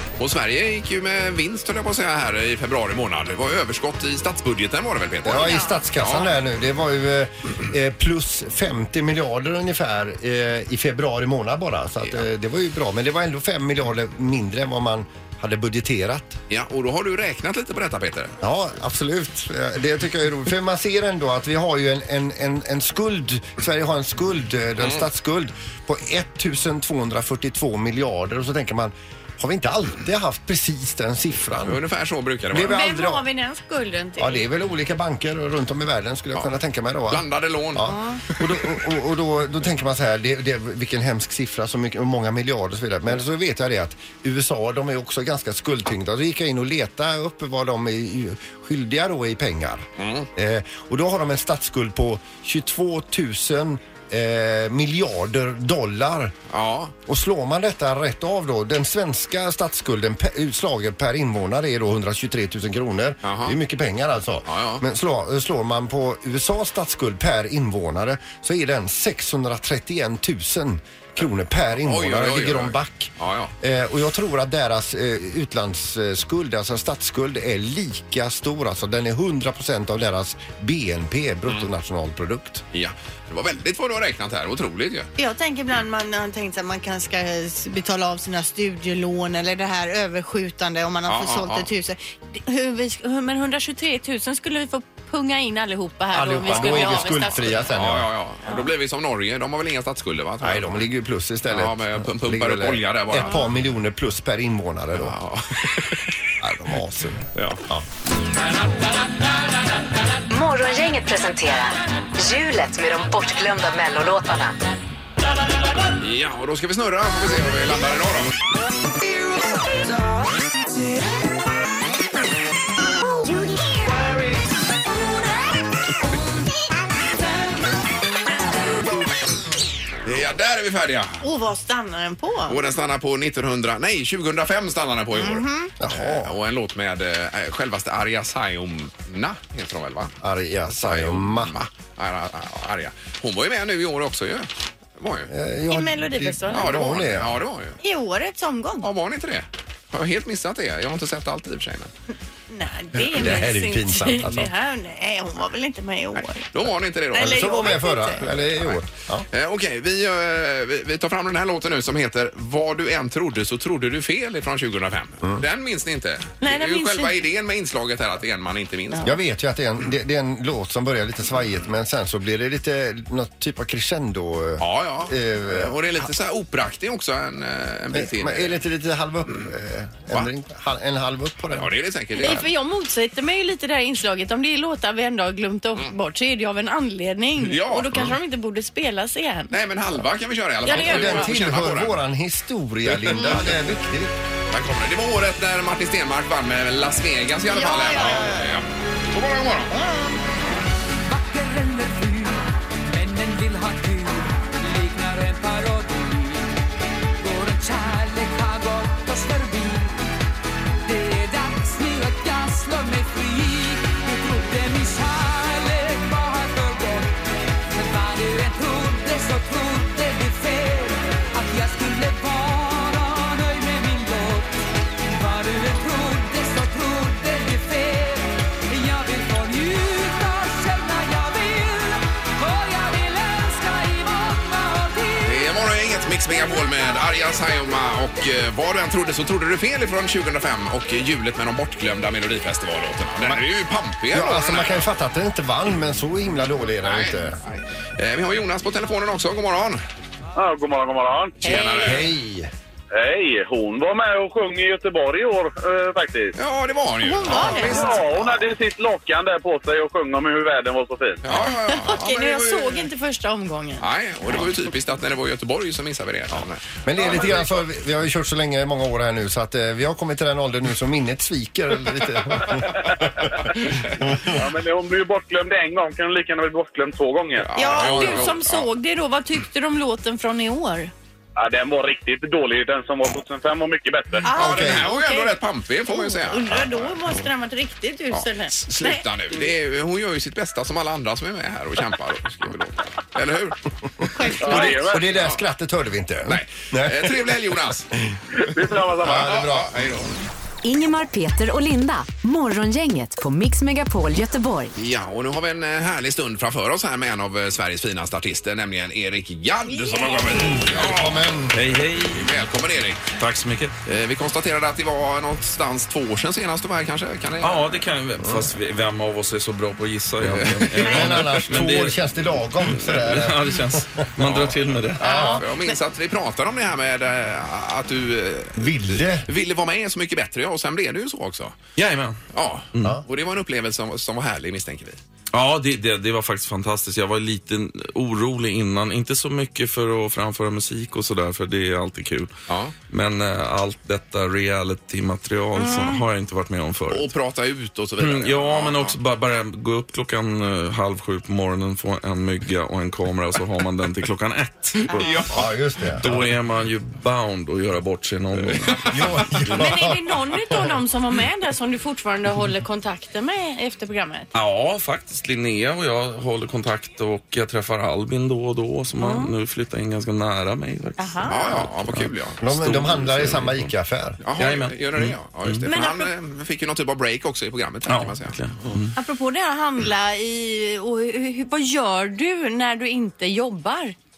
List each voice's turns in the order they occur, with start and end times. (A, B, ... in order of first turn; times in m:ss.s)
0:00.2-0:06.3 A
0:05.2-0:16.4 B
0:05.4-0:05.8 C
0:16.5-0:18.4 A
0:18.4-0:31.8 B
0:24.8-0:25.1 A
0:31.6-0:32.8 A
0:32.5-0:33.2 B
0:32.7-0:34.4 C
0:34.2-0:37.2 B
0:37.1-0:38.7 A
0:37.8-0:56.4 B
0:37.8-0:38.2 C
0:50.0-0:50.3 A
0:56.5-0:56.9 A
0:57.1-1:22.6 B
1:03.2-1:03.6 A
1:04.5-1:04.8 A
1:11.8-1:13.5 A
1:22.7-1:25.1 A
1:25.2-1:37.7 C
1:31.1-1:31.7 A
1:36.1-1:38.1 B
1:36.5-1:40.9 A
1:40.4-1:45.2 B
1:41.5-1:43.5 A
1:45.0-1:46.1 A
1:46.4-1:47.9 B
1:47.4-1:47.6 A
1:50.3-1:54.6 D
1:56.0-1:58.4 A
2:10.0-2:11.2 A
2:11.2-2:12.6 C
2:12.5-2:20.2 A
2:15.1-2:15.7 C
2:15.8-2:16.4 B
2:20.2-2:21.6 B
2:20.7-2:25.3 A
2:25.3-2:27.4 B
2:25.7-2:26.9 C
2:26.5-2:27.8 A
2:27.8-2:28.9 C
2:28.8-2:31.9 A
2:32.5-2:36.5 C
2:32.9-2:34.5 B
2:36.2-2:37.6 A
2:37.1-2:38.2 C
2:37.1-2:39.3 B
2:38.2-2:49.1 A
2:46.4-2:47.2 C
2:49.0-2:55.8 B
2:54.6-2:58.6 A
2:57.9-3:01.7 B
3:01.5-3:02.5 A
3:02.2-3:09.6 C
3:07.4-3:08.2 A
3:09.5-3:12.0 A
3:10.6-3:11.3 C
3:10.7-3:14.1 B
3:12.8-3:13.6 A
3:14.5-3:19.7 A
3:17.5-3:18.6 C
3:21.0-3:26.6 E
3:27.2-3:30.0 E
3:30.8-3:37.2 E
3:37.7-3:55.5 E
3:55.2-4:04.9 A
4:04.1-4:07.4 B
4:06.8-4:09.8 A
4:10.4-4:11.5 F
4:11.4-4:12.1 A
4:11.5-4:11.8 C
4:11.8-4:12.5 B
4:12.9-4:16.3 F
4:16.4-4:18.4 A
4:17.0-4:18.0 C
4:17.3-4:17.7 B
4:17.7-4:21.2 F
4:21.2-4:22.9 A
4:21.7-4:23.8 C
4:23.8-4:27.5 A
4:26.8-4:33.3 B
4:34.3-4:37.5 F
4:37.4-4:38.7 A
4:37.6-4:40.9 C
4:37.8-4:38.3 B
4:41.4-4:44.3 F
4:44.3-4:45.4 C
4:44.3-4:44.9 B
4:44.3-4:46.9 A
4:45.9-4:49.0 C
4:48.1-4:55.4 A
4:54.1-4:54.9 C
4:54.4-4:55.0 F
4:54.7-4:57.2 B
4:56.3-4:57.9 A
4:58.4-4:59.2 F
4:59.0-4:59.8 B
4:59.0-5:00.1 A
5:00.6-5:04.7 D
5:04.8-5:11.2 A
5:09.7-5:10.4 C
5:10.3-5:11.6 B
5:11.5-5:12.3 G
5:12.1-5:13.2 A
5:13.2-5:13.8 G
5:13.8-5:17.8 A
5:17.4-5:22.1 G
5:18.2-5:18.5 B
5:20.3-5:21.1 A
5:20.7-5:25.4 B
5:22.6-5:25.2 G
5:25.0-5:25.8 C
5:25.1-5:31.7 A
5:28.6-5:29.3 B
5:31.8-5:32.2 G
5:32.3-5:35.0 A
5:32.8-5:33.0 G
5:35.3-5:42.3 G
5:42.5-5:42.8 A
5:42.9-5:47.1 G
5:45.6-5:46.0 C
5:46.9-5:49.0 A
5:48.0-5:55.2 G
5:54.9-5:55.2 C
5:54.9-5:55.4 A
5:55.3-5:56.3 B
5:56.0-5:59.2 G
5:58.7-5:59.4 A
5:58.9-6:00.8 B
5:59.5-6:04.3 C
6:04.3-6:13.7 G
6:09.0-6:09.3 C
6:11.0-6:11.4 C
6:11.2-6:12.4 A
6:12.4-6:14.2 B
6:14.2-6:18.4 A
6:14.4-6:15.7 G
6:15.7-6:16.1 C
6:17.9-6:19.0 G
6:19.0-6:24.0 C